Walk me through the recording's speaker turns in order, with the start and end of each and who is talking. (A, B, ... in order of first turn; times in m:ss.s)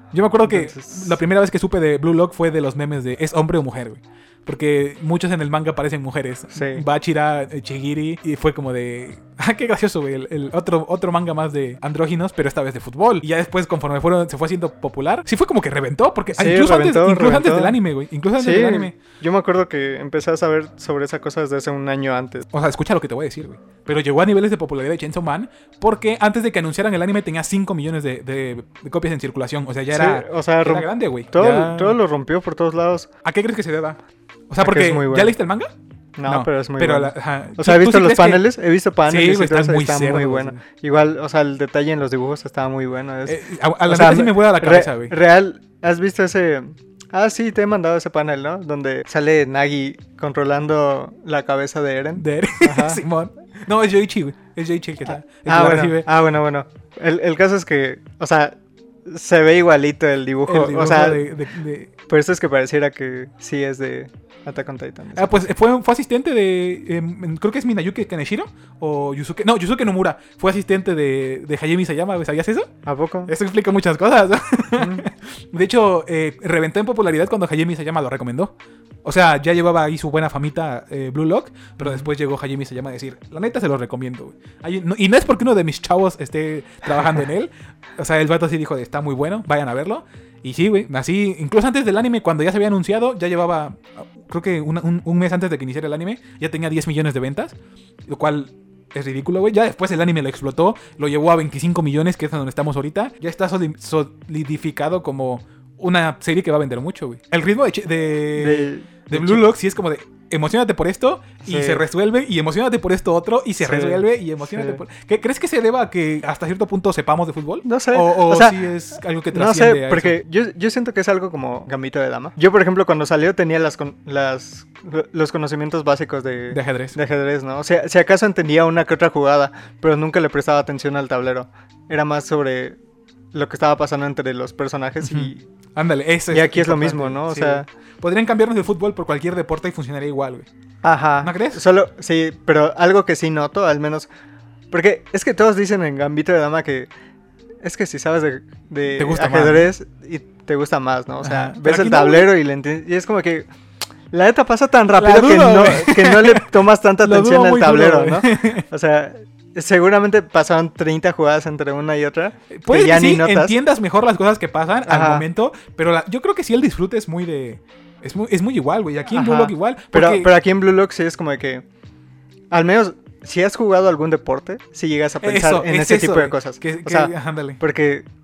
0:00.1-0:19.0 A
0:00.4-0:01.2 B
0:06.5-0:06.8 B
0:16.3-0:17.8 B
0:18.4-0:22.4 B
0:22.5-0:32.0 A
0:29.9-0:33.1 B
0:33.2-0:34.0 A
0:34.5-0:35.7 A
0:34.6-0:35.3 B
0:36.2-0:53.0 B
0:36.2-0:38.4 A
0:39.1-0:40.6 A
0:43.2-0:45.1 A
0:52.2-0:56.1 A
0:55.1-1:01.2 B
1:00.4-1:01.9 A
1:02.1-1:05.3 B
1:05.2-1:12.7 A
1:12.8-1:13.3 B
1:13.3-1:18.5 A
1:14.8-1:15.0 B
1:19.0-1:37.6 A
1:21.8-1:22.0 B
1:38.1-2:00.2 A
1:48.4-1:49.4 B
1:51.4-1:51.8 B
1:53.6-1:54.8 B
1:57.6-1:58.6 B
1:59.3-2:12.8 B
2:06.5-2:07.0 A
2:13.3-2:15.4 B
2:15.0-2:20.5 A
2:16.3-2:17.6 B
2:20.8-2:24.1 B
2:21.2-2:21.6 A
2:24.7-2:26.9 B
2:27.6-2:33.5 B
2:28.9-2:29.7 A
2:31.2-2:32.3 A
2:34.1-2:43.6 B
2:34.9-2:38.6 A
2:42.5-2:50.3 A
2:44.8-2:45.2 B
2:49.1-2:51.6 B
2:52.5-2:58.0 B
2:55.2-2:57.6 A